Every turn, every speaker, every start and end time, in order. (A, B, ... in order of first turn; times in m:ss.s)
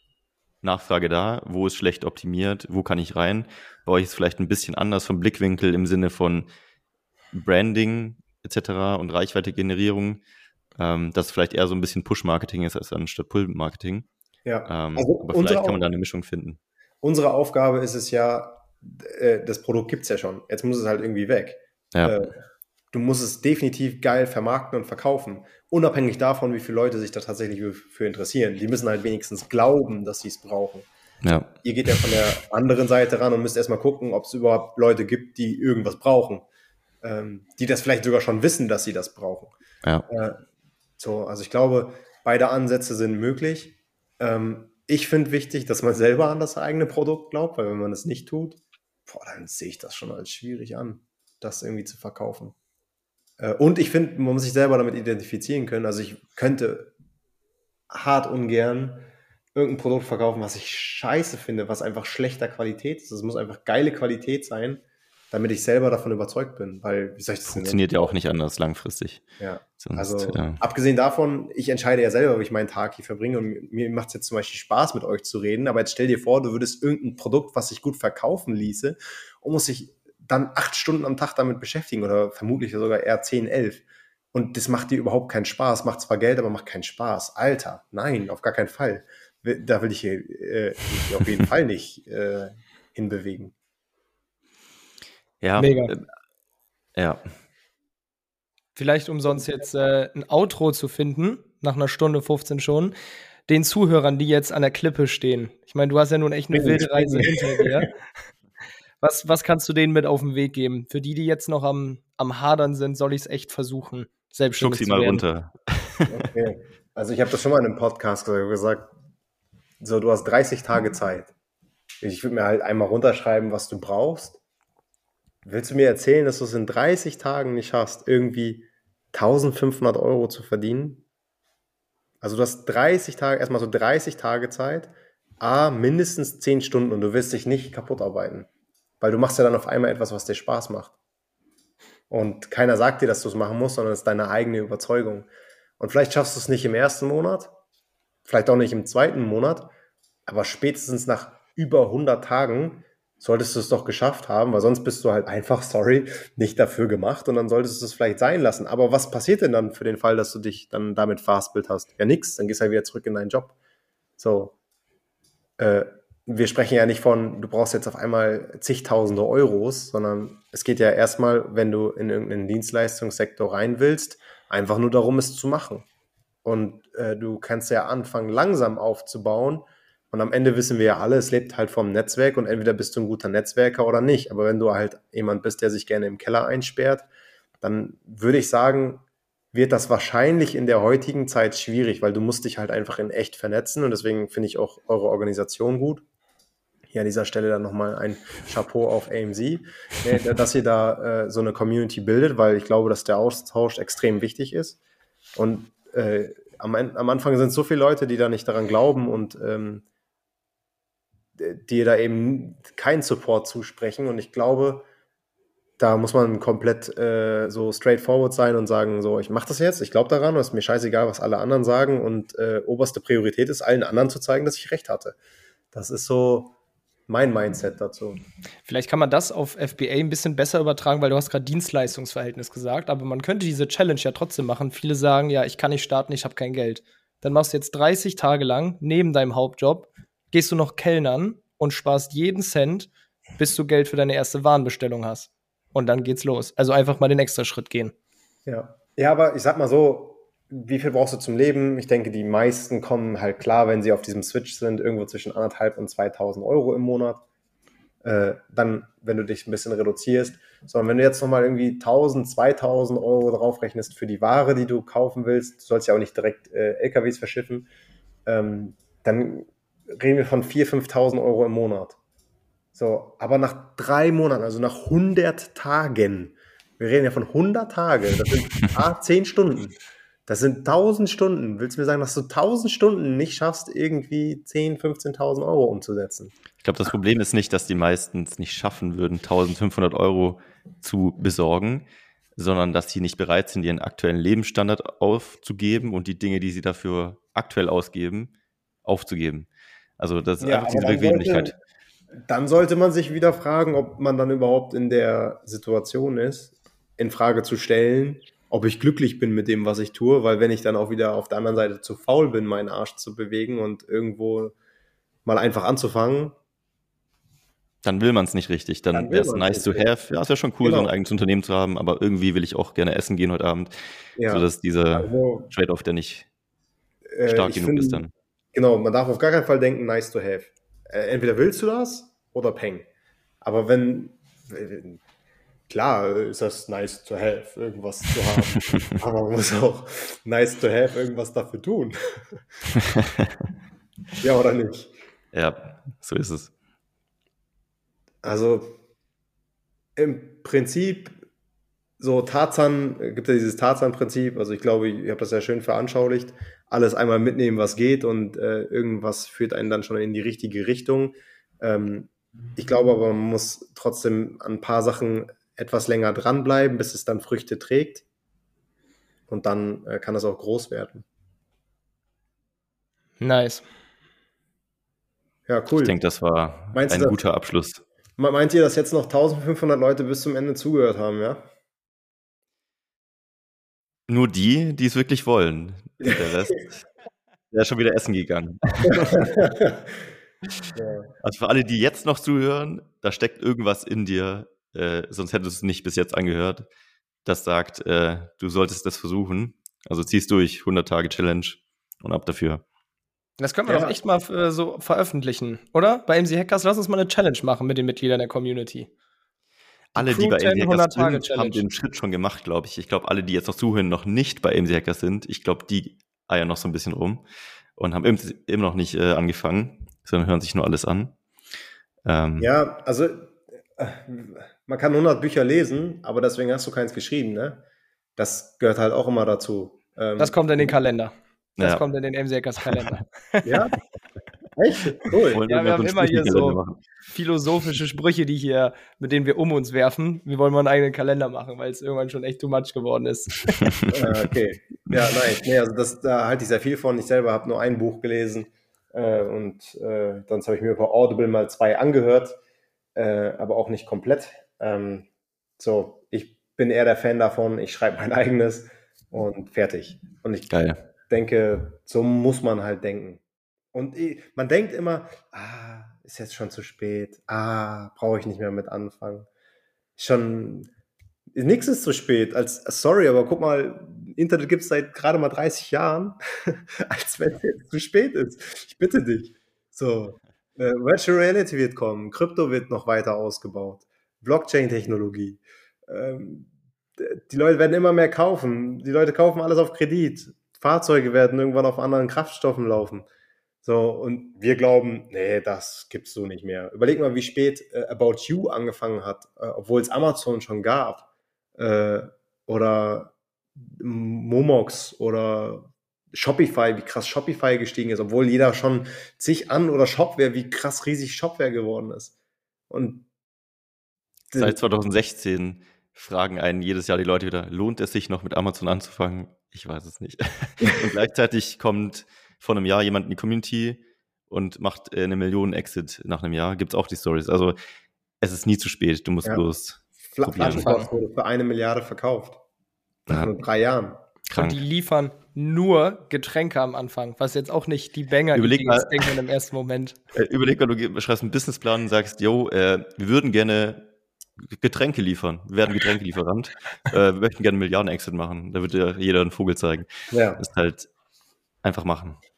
0:00.6-0:06.5 A
0:07.3-0:10.2 A
0:10.8-0:14.0 A
0:14.4-0:15.8 B
0:14.6-0:16.6 A
0:17.0-0:22.4 B
0:21.9-0:22.2 A
0:22.9-0:30.9 B
0:31.2-0:31.5 A
0:31.6-0:36.4 B
0:37.0-0:39.5 B
0:40.1-0:40.4 B
0:41.0-0:52.5 B
0:53.4-0:56.9 B
0:57.9-1:08.1 B
1:07.4-1:09.2 A
1:09.4-1:33.5 B
1:09.8-1:10.6 A
1:35.4-1:36.0 A
1:35.6-1:35.9 C
1:37.0-1:37.2 A
1:38.8-1:42.9 C
1:43.5-1:47.9 C
1:46.5-1:47.8 B
1:49.0-1:55.2 C
1:54.6-1:56.2 A
1:56.1-1:58.9 B
1:59.8-2:01.3 B
2:02.0-2:04.4 B
2:05.4-2:11.0 B
2:12.2-2:18.5 B
2:19.0-2:20.9 B
2:22.1-2:25.3 B
2:25.8-2:27.5 B
2:28.2-2:29.7 B
2:30.2-2:43.5 B
2:44.2-2:44.6 B
2:45.6-2:55.8 B
2:56.4-3:07.1 B
3:07.6-3:16.0 B
3:16.9-3:24.8 B
3:25.4-3:29.8 B
3:31.4-3:34.8 B
3:35.8-3:45.2 B
3:45.7-3:46.5 B
3:47.1-3:48.2 B
3:48.6-4:07.9 C
4:08.4-4:17.2 B
4:18.0-4:27.7 B
4:28.2-4:32.0 B
4:32.7-4:39.7 B
4:40.3-4:46.3 B
4:46.6-4:58.3 A
4:58.8-4:59.5 A
5:00.0-5:01.5 A
5:00.4-5:01.5 B
5:02.3-5:14.5 B
5:15.2-5:16.3 B
5:17.8-5:26.3 A
5:18.9-5:19.9 B
5:20.6-5:20.9 B
5:24.2-5:25.5 B
5:27.1-5:32.9 B
5:27.3-5:28.1 A
5:33.4-5:35.0 B
5:35.7-5:42.4 B
5:42.8-5:43.4 A
5:44.2-5:44.9 B
5:45.3-5:46.5 A
5:48.2-5:48.8 B
5:50.0-5:51.2 B
5:52.0-6:08.0 B
6:09.3-6:11.0 B
6:13.2-6:13.6 C
6:15.5-6:15.9 B
6:15.8-6:17.8 A
6:16.7-6:17.2 B
6:18.2-6:21.4 B
6:24.1-6:26.8 A
6:27.5-6:29.4 A
6:29.0-6:29.8 B
6:30.7-6:31.1 B
6:31.2-6:36.7 A
6:37.2-6:42.6 A
6:43.4-6:48.9 C
6:43.7-6:44.0 B
6:49.9-6:57.2 A
6:49.9-6:51.6 C
6:57.8-7:01.1 A
7:02.0-7:02.5 A
7:02.4-7:07.6 B
7:08.2-7:10.7 B
7:10.2-7:13.4 C
7:12.6-7:13.0 A
7:13.4-7:13.8 B
7:14.6-7:15.4 B
7:15.3-7:16.8 A
7:15.4-7:16.6 C
7:17.1-7:23.8 C
7:23.6-7:23.9 A
7:23.9-7:32.4 B
7:33.0-7:35.1 B
7:35.6-7:40.5 B
7:40.5-7:40.8 A
7:41.1-7:43.2 B
7:43.7-7:49.3 B
7:50.0-7:50.7 B
7:51.3-8:13.1 B
8:13.6-8:21.0 B
8:21.6-8:32.1 B
8:32.7-8:33.0 B
8:34.3-8:34.6 B
8:34.4-8:47.6 A
8:48.2-8:50.7 A
8:50.1-8:52.4 B
8:50.4-8:50.9 C
8:53.1-8:54.0 B
8:54.3-8:54.6 A
8:54.3-9:00.0 C
8:58.3-8:59.0 A
9:00.1-9:03.8 A
9:04.4-9:10.9 A
9:10.1-9:10.4 B
9:11.6-9:12.2 A